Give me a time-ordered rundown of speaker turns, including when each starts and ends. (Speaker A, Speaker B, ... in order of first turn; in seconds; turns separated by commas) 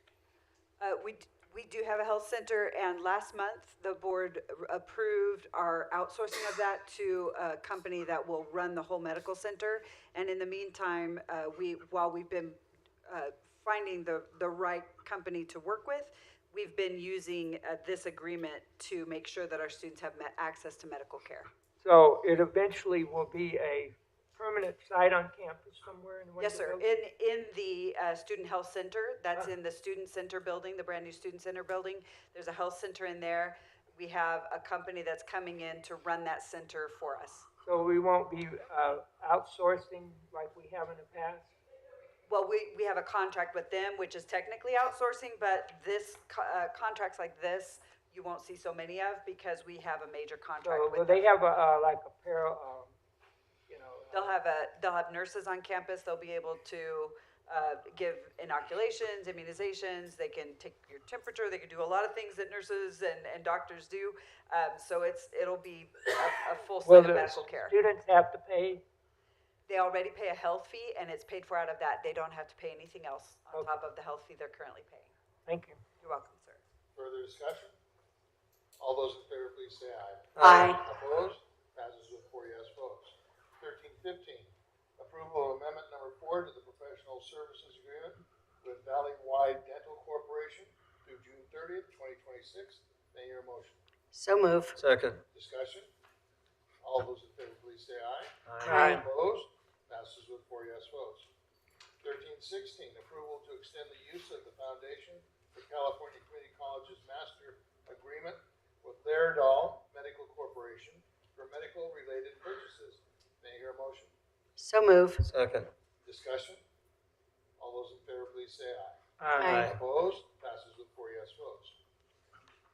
Speaker A: 0.8-21.5, Speaker B: 21.8-26.9, Speaker A: 26.4-37.5, Speaker B: 37.6-41.5, Speaker A: 42.3-51.3, Speaker B: 50.6-53.0, Speaker B: 53.7-54.4, Speaker A: 54.1-67.8, Speaker B: 66.8-68.8, Speaker A: 69.7-75.1, Speaker B: 75.5-75.8, Speaker A: 76.0-76.6, Speaker C: 77.0-77.8, Speaker C: 78.8-93.8, Speaker D: 80.4-80.8, Speaker E: 80.4-80.8, Speaker E: 94.1-94.8, Speaker D: 94.8-95.2, Speaker C: 95.3-95.9, Speaker C: 96.8-101.3, Speaker D: 98.5-98.8, Speaker E: 98.7-99.0, Speaker C: 102.0-114.1, Speaker E: 114.6-115.3, Speaker D: 115.2-115.7, Speaker C: 116.0-116.6, Speaker C: 117.6-121.8, Speaker E: 119.4-119.7, Speaker D: 119.4-119.8